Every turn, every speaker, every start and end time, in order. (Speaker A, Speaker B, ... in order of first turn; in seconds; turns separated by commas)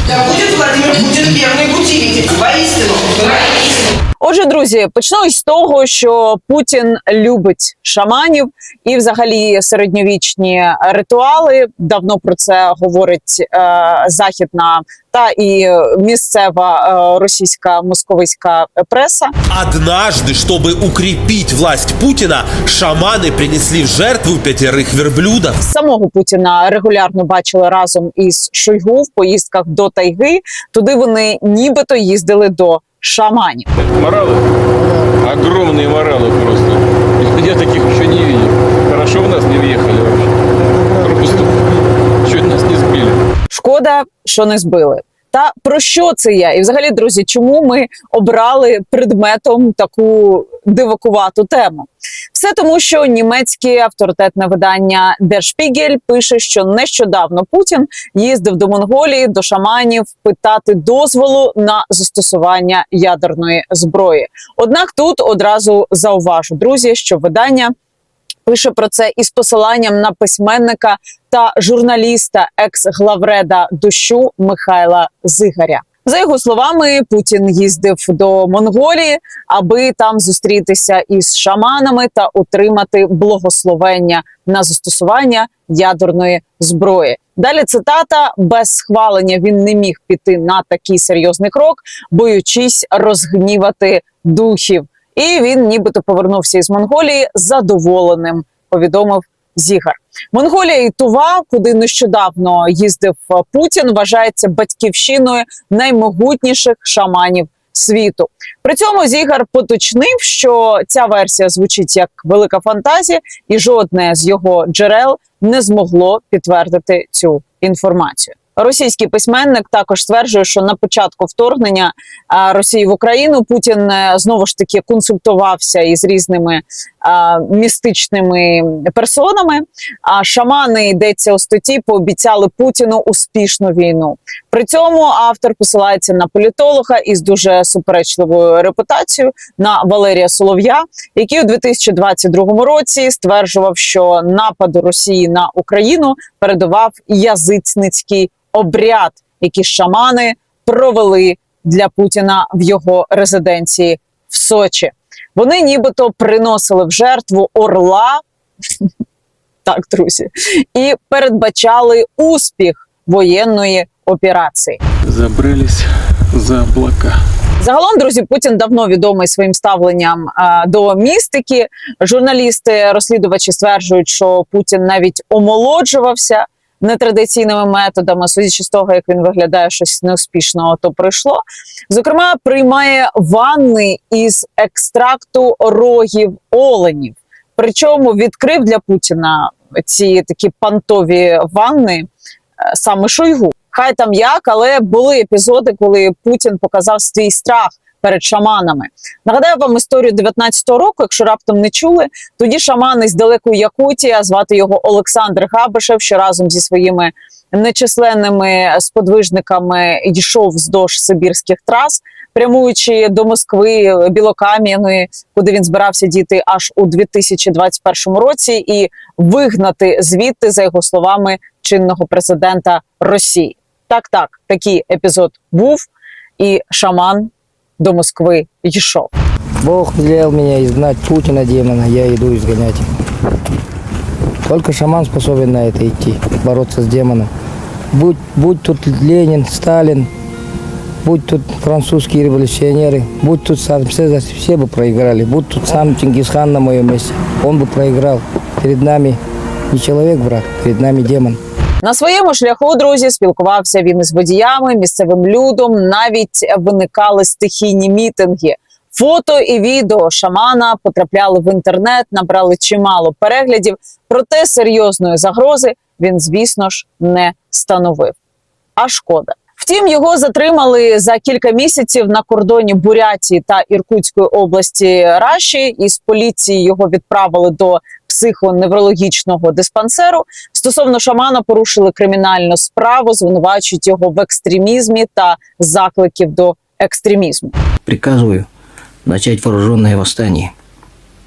Speaker A: 0.3-3.1, Speaker B: 4.2-19.3, Speaker C: 19.5-25.6, Speaker B: 25.6-33.7, Speaker D: 33.8-34.5, Speaker D: 35.2-40.3, Speaker D: 40.9-41.6, Speaker D: 42.2-43.2, Speaker B: 43.5-67.7, Speaker B: 68.5-158.2, Speaker B: 159.6-164.8, Speaker D: 165.1-167.2, Speaker B: 167.6-192.1, Speaker B: 192.7-229.1, Speaker E: 229.6-232.8, Speaker E: 234.4-237.3, Speaker E: 237.9-240.1, Speaker E: 241.0-249.2, Speaker E: 249.7-251.4, Speaker B: 251.8-268.1, Speaker B: 268.8-287.5, Speaker F: 287.9-288.5, Speaker F: 289.1-290.5